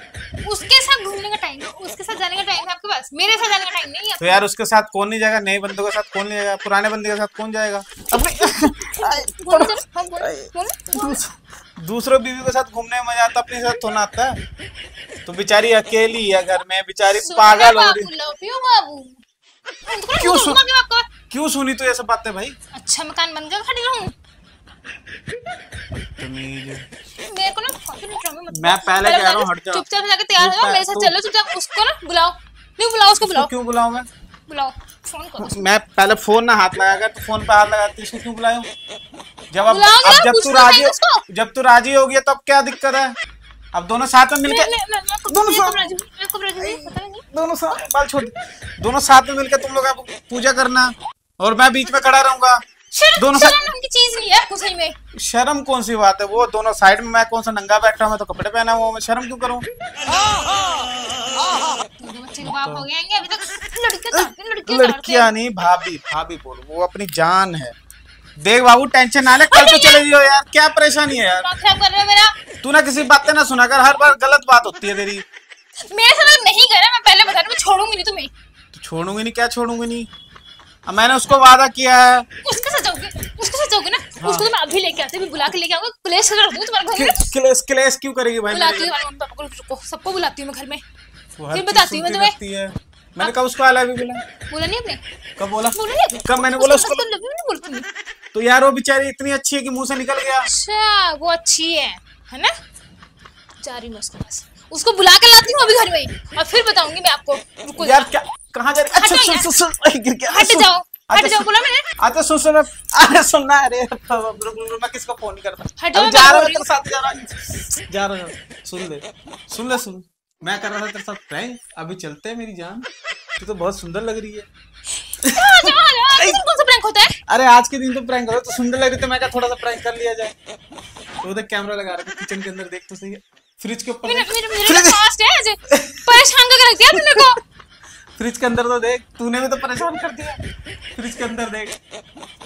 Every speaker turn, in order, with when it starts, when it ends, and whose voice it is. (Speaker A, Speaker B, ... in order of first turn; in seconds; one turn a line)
Speaker A: 0.4-4.4
Speaker B: 4.2-14.4
Speaker A: 8.1-11.2
Speaker B: 15.3-18.1
Speaker A: 17.1-19.2
Speaker A: 19.9-21.1
Speaker B: 20.1-20.6
Speaker B: 21.3-22.6
Speaker A: 22.7-24.1
Speaker B: 25.9-26.9
Speaker A: 27.2-33.5
Speaker B: 28.5-29.8
Speaker B: 30.4-31.1
Speaker B: 33.2-34.1
Speaker A: 34.5-35.7
Speaker B: 35.4-38.7
Speaker B: 39.5-43.2
Speaker A: 39.7-41.2
Speaker B: 43.7-44.7
Speaker A: 44.4-47.3
Speaker B: 45.3-45.9
Speaker B: 46.6-52.6
Speaker A: 52.9-55.0
Speaker B: 53.2-53.7
Speaker B: 55.2-59.7
Speaker A: 62.0-65.3
Speaker B: 62.4-62.9
Speaker B: 64.1-67.8
Speaker B: 68.4-71.5
Speaker A: 69.3-70.3
Speaker A: 71.4-72.3
Speaker B: 72.6-75.2
Speaker A: 75.8-78.3
Speaker B: 78.7-80.1
Speaker B: 80.9-82.3
Speaker A: 82.4-87.3
Speaker B: 84.2-84.5
Speaker B: 86.9-88.9
Speaker A: 88.5-90.8
Speaker B: 91.4-94.2
Speaker A: 91.5-92.4
Speaker A: 94.5-95.0
Speaker B: 95.4-97.0
Speaker A: 95.7-97.9
Speaker B: 98.3-100.5
Speaker A: 100.4-102.5
Speaker A: 103.6-108.1
Speaker B: 107.8-111.5
Speaker A: 108.8-109.6
Speaker A: 110.3-111.9
Speaker B: 112.0-122.8
Speaker A: 115.8-116.7
Speaker B: 123.4-124.5
Speaker A: 125.0-127.2
Speaker B: 125.2-126.4
Speaker B: 127.3-130.3
Speaker B: 131.2-135.0
Speaker A: 134.0-137.4
Speaker B: 135.7-136.2
Speaker B: 136.9-137.3
Speaker B: 138.2-140.4
Speaker B: 140.9-141.8